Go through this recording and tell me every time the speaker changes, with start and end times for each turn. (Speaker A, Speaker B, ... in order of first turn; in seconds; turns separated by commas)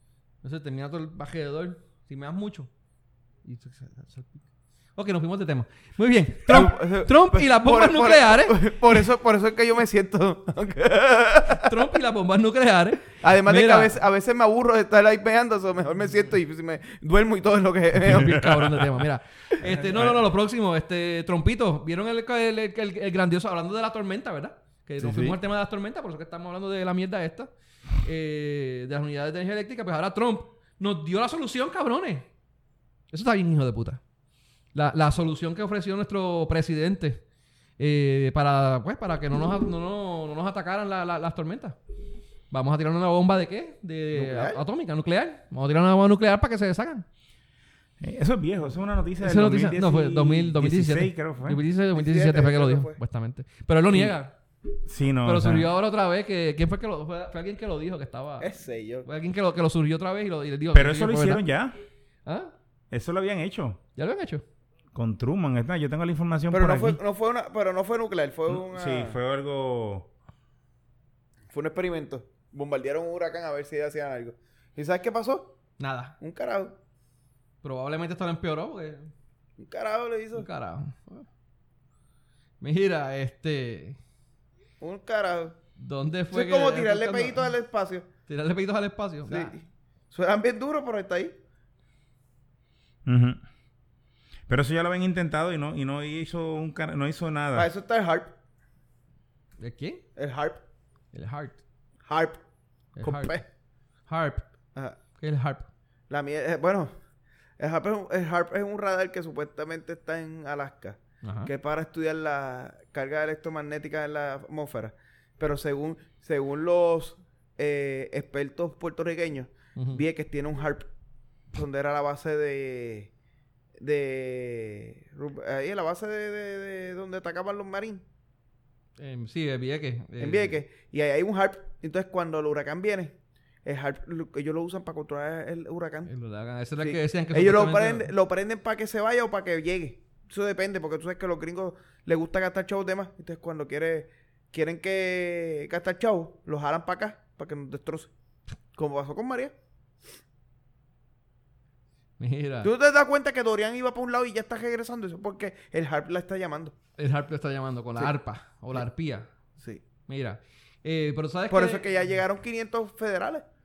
Speaker A: 0.4-2.7, Speaker A: 3.5-4.4, Speaker A: 5.0-8.6, Speaker B: 6.5-11.7, Speaker A: 11.5-13.9, Speaker B: 13.2-18.4, Speaker A: 18.0-27.5, Speaker C: 18.1-18.8, Speaker C: 19.7-20.2, Speaker B: 25.0-25.4, Speaker A: 28.0-32.3, Speaker A: 33.1-34.0, Speaker A: 34.7-37.2, Speaker A: 37.8-41.8, Speaker A: 42.5-47.0, Speaker B: 44.1-44.6, Speaker C: 48.0-51.6, Speaker A: 49.2-54.4, Speaker B: 51.9-53.0, Speaker C: 54.9-55.7, Speaker A: 55.2-58.5, Speaker B: 58.4-59.1, Speaker A: 59.0-61.4, Speaker C: 60.7-61.8, Speaker A: 62.3-62.5, Speaker C: 62.9-63.8, Speaker A: 64.0-64.4, Speaker C: 64.9-67.0, Speaker B: 66.5-69.2, Speaker C: 68.5-70.1, Speaker B: 71.5-75.5, Speaker A: 75.8-76.2, Speaker B: 76.2-76.8, Speaker A: 77.6-79.1, Speaker B: 79.6-80.5, Speaker A: 80.4-81.2, Speaker A: 82.6-84.0, Speaker B: 84.8-85.6, Speaker A: 85.8-87.5, Speaker B: 86.3-88.1, Speaker A: 88.3-89.5, Speaker B: 89.3-91.3, Speaker C: 93.0-93.4, Speaker C: 94.5-97.7, Speaker B: 97.5-98.3, Speaker A: 99.6-100.0, Speaker B: 100.2-100.6, Speaker A: 101.1-101.6, Speaker B: 102.1-102.4, Speaker A: 103.0-103.3, Speaker B: 103.0-103.4, Speaker A: 104.1-104.5, Speaker A: 105.2-105.7, Speaker B: 106.1-106.9, Speaker B: 107.6-120.9, Speaker A: 111.2-111.5, Speaker A: 119.8-120.0, Speaker B: 121.5-123.1, Speaker B: 123.8-128.0, Speaker A: 129.0-130.6, Speaker B: 130.2-133.1, Speaker B: 133.7-136.1, Speaker A: 136.1-138.1, Speaker B: 136.8-148.1, Speaker B: 148.8-149.5, Speaker A: 152.2-152.7, Speaker B: 152.6-156.7, Speaker A: 157.0-159.3, Speaker A: 160.1-161.8, Speaker B: 161.5-163.4